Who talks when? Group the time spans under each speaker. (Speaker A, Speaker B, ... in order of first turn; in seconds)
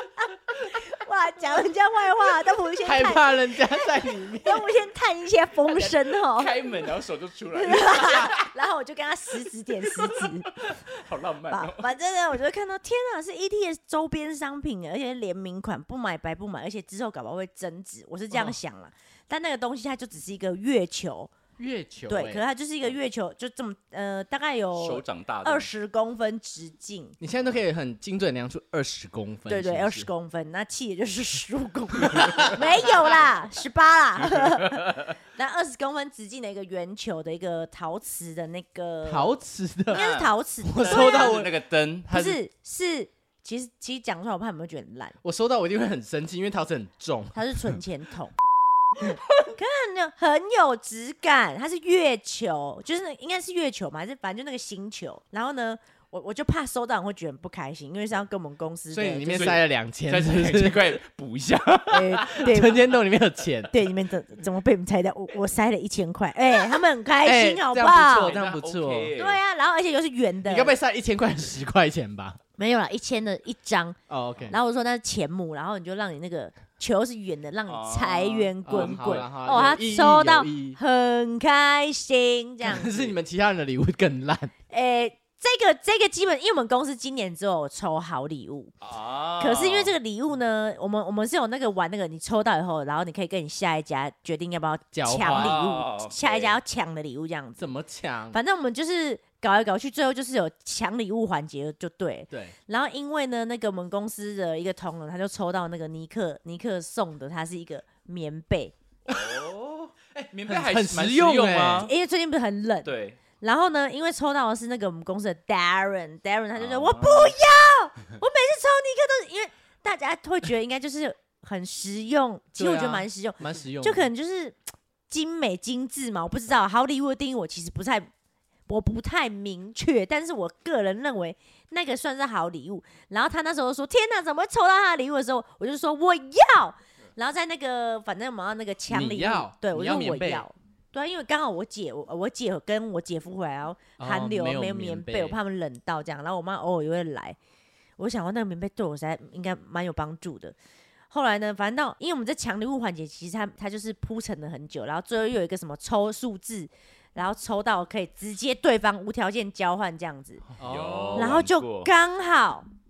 Speaker A: 0.2-6.7, 7.5-10.6, 11.5-21.3, 22.1-27.1, 29.5-39.3, 39.9-41.4, 42.1-45.2, 47.3-48.3, 49.0-59.6, 61.9-62.8, 63.7-68.3, 69.2-70.7, 72.6-74.0, 74.5-83.0, 84.7-88.7, 89.4-97.7, 98.3-108.7, 111.8-128.1, 128.7-147.4, 148.0-150.6, 151.1-160.4, 161.2-162.7
Speaker B: 2.8-4.7, 21.6-22.4, 27.2-30.1, 32.1-32.5, 39.0-40.0, 40.6-41.5, 45.2-47.4, 58.9-61.0, 62.4-63.7, 67.2-69.1, 70.5-72.4, 74.1-74.6, 78.7-80.8, 82.6-84.5, 94.9-95.6, 97.6-98.4, 102.3-102.5, 109.1-111.9, 122.5-124.1, 138.9-140.4, 144.0-145.4, 160.6-161.4
Speaker C: 5.7-8.5, 10.0-11.9, 24.7-25.7, 34.4-35.1, 39.9-42.4, 59.3-62.7, 68.3-69.4, 77.7-79.2, 88.8-89.9, 95.2-96.6, 109.1-109.8, 110.3-111.9, 112.8-113.2, 116.5-117.4, 160.6-161.9